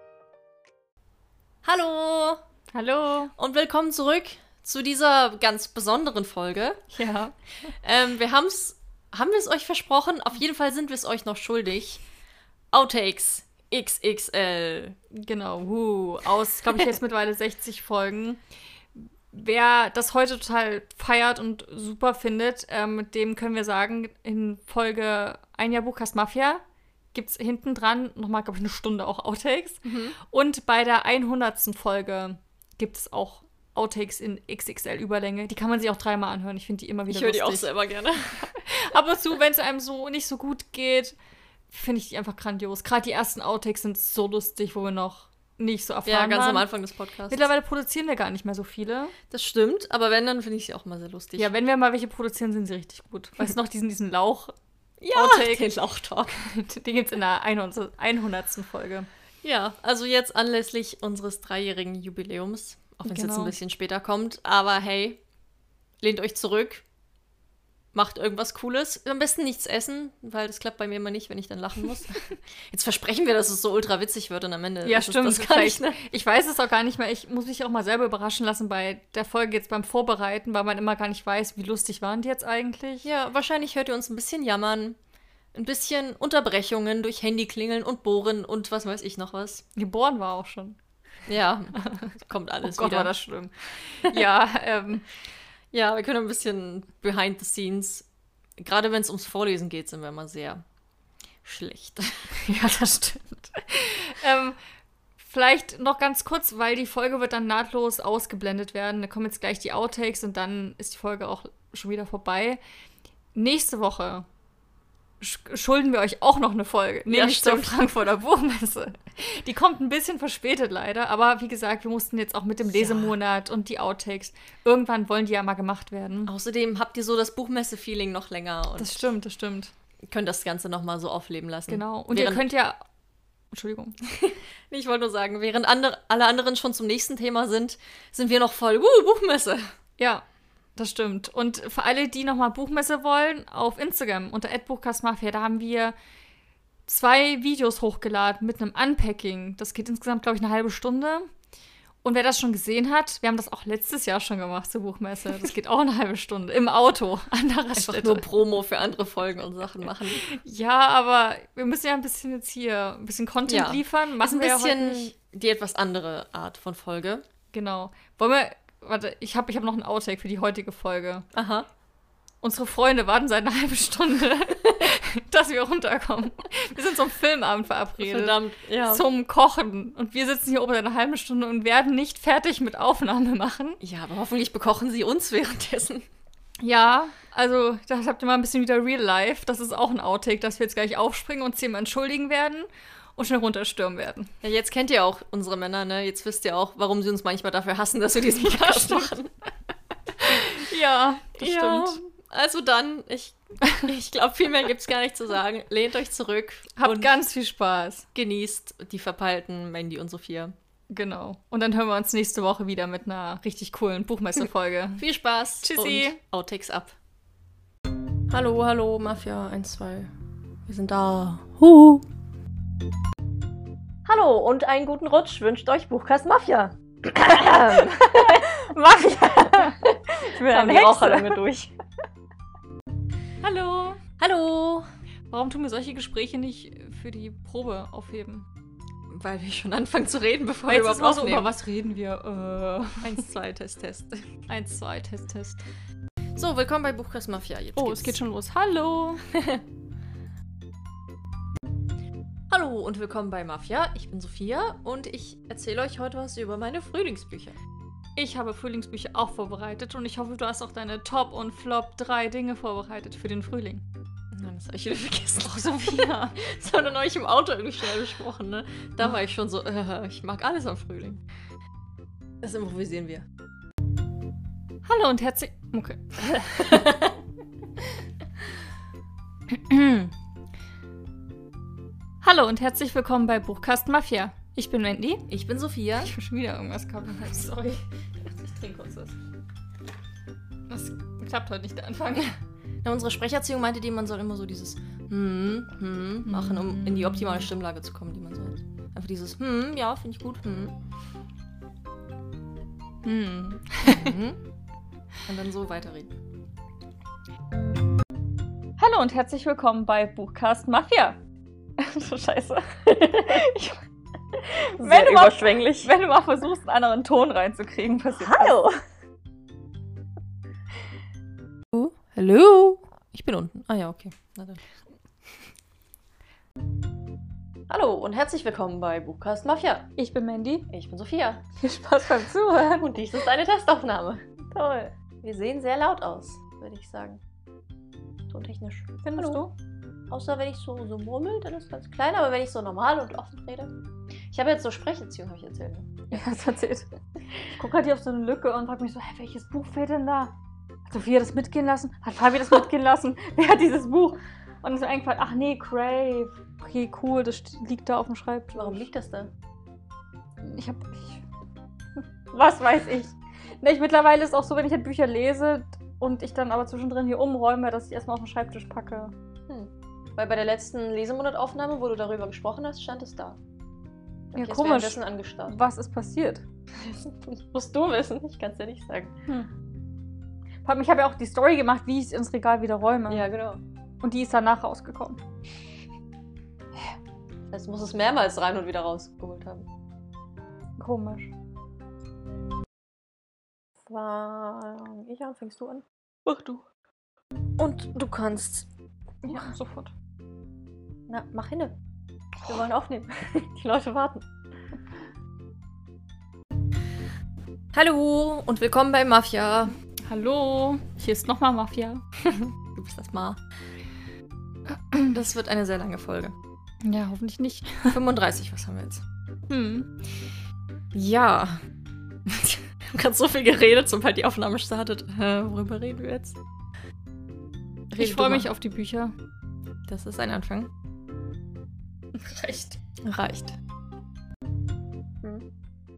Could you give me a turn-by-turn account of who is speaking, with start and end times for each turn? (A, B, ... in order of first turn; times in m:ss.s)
0:01.6-0:02.4 A
0:02.7-0:03.3 B
0:03.4-0:06.8 A
0:06.9-0:07.3 B
0:07.7-0:12.0 A
0:12.7-0:15.0 A
0:15.1-0:18.4 B
0:19.3-0:26.6 B
0:27.1-0:37.7 B
0:29.8-0:30.2 A
0:37.1-0:38.6 A
0:38.6-0:41.2 B
0:41.7-0:46.7 B
0:46.0-0:47.5 A
0:47.3-0:49.1 B
0:49.3-0:51.5 A
0:51.4-0:54.5 B
0:55.0-0:56.4 A
0:55.1-0:55.7 B
0:56.3-0:59.1 B
0:59.4-1:05.2 A
1:03.0-1:03.5 B
1:06.0-1:06.8 A
1:07.9-1:16.0 A
1:14.8-1:23.1 B
1:23.0-1:25.0 A
1:25.5-1:29.6 A
1:29.8-1:30.8 B
1:31.3-1:33.1 A
1:31.8-1:32.1 B
1:32.6-1:35.0 B
1:35.7-1:38.0 A
1:38.6-1:40.6 A
1:41.4-1:42.4 A
1:42.3-1:44.6 B
1:45.2-1:52.6 B
1:53.3-1:54.2 B
1:55.2-2:06.3 B
1:57.1-1:57.8 A
2:02.6-2:03.1 A
2:06.2-2:09.1 A
2:08.8-2:09.7 B
2:10.1-2:12.4 A
2:11.7-2:12.8 B
2:13.5-2:14.0 B
2:14.2-2:19.7 A
2:20.0-2:20.2 B
2:20.8-2:25.9 B
2:26.8-2:31.3 B
2:32.0-2:38.2 B
2:37.8-2:40.3 A
2:40.2-2:45.1 B
2:43.5-2:47.2 A
2:47.5-2:51.2 B
2:51.3-2:51.7 A
2:52.4-3:03.8 B
2:58.0-2:59.0 A
3:03.8-3:06.0 A
3:06.6-3:14.3 B
3:14.4-3:19.3 A
3:18.2-3:19.2 B
3:20.2-3:22.0 B
3:21.4-3:27.1 A
3:26.8-3:28.1 B
3:28.1-3:30.5 A
3:30.9-3:35.0 B
3:35.0-3:37.0 A
3:35.6-3:36.2 B
3:38.3-3:40.1 A
3:40.6-3:42.0 A
3:44.0-3:48.5 A
3:47.7-3:51.4 B
3:49.2-3:51.7 A
3:53.4-3:54.0 B
3:54.2-3:54.9 A
3:55.3-3:58.5 B
3:59.1-4:01.5 A
4:00.7-4:03.2 B
4:03.0-4:04.2 A
4:04.5-4:05.6 B
4:06.4-4:08.2 A
4:07.8-4:09.2 B
4:09.3-4:09.6 A
4:12.5-4:17.6 A
4:18.2-4:23.8 B
4:24.3-4:31.2 A
4:25.4-4:26.4 B
4:32.4-4:33.2 A
4:34.8-4:37.0 B
4:36.6-4:37.1 A
4:39.5-4:40.1 B
4:42.2-4:45.3 B
4:45.3-4:46.1 A
4:46.0-4:49.2 B
4:50.7-4:52.4 B
4:52.8-5:00.7 A
4:56.2-4:57.5 B
5:03.0-5:04.1 B
5:03.8-5:04.4 A
5:05.3-5:06.2 A
5:08.8-5:11.2 B
5:11.8-5:13.8 B
5:14.4-5:18.6 B
5:14.8-5:15.9 A
5:18.1-5:18.8 A
5:21.7-5:24.6 A
5:27.7-5:29.9 A
5:30.0-5:30.7 B
5:30.7-5:31.4 A
5:31.6-5:33.0 B
5:32.7-5:34.2 A
5:34.5-5:34.9 B
5:35.2-5:37.2 A
5:38.3-5:39.4 A
5:39.0-5:39.5 B
5:40.1-5:43.7 A
5:44.3-5:46.2 A
5:46.1-5:46.9 B
5:47.5-5:50.3 B
5:50.9-5:58.8 B
5:58.5-5:59.3 A
6:00.4-6:01.2 B
6:02.0-6:09.1 B
6:09.5-6:13.4 A
6:14.3-6:15.5 A
6:14.3-6:16.4 B
6:16.8-6:19.1 A
6:20.6-6:23.3 B
6:23.1-6:23.6 A
6:24.0-6:25.2 B
6:27.5-6:29.6 A
6:30.8-6:31.3 B
6:33.9-6:35.8 A
6:36.2-6:36.6 B
6:37.6-6:38.7 A
6:39.2-6:39.9 B
6:41.1-6:41.7 A
6:42.4-6:44.2 A
6:47.7-6:49.7 A
6:50.1-6:52.0 B
6:52.3-6:53.4 A
6:55.0-6:56.3 A
6:56.8-6:58.0 B
6:57.9-6:59.0 A
6:59.5-6:59.9 B
7:00.9-7:01.6 A
7:02.3-7:06.4 A
7:07.9-7:08.5 A
7:08.0-7:09.1 B
7:09.9-7:10.7 A
7:12.1-7:12.8 B
7:13.0-7:13.6 A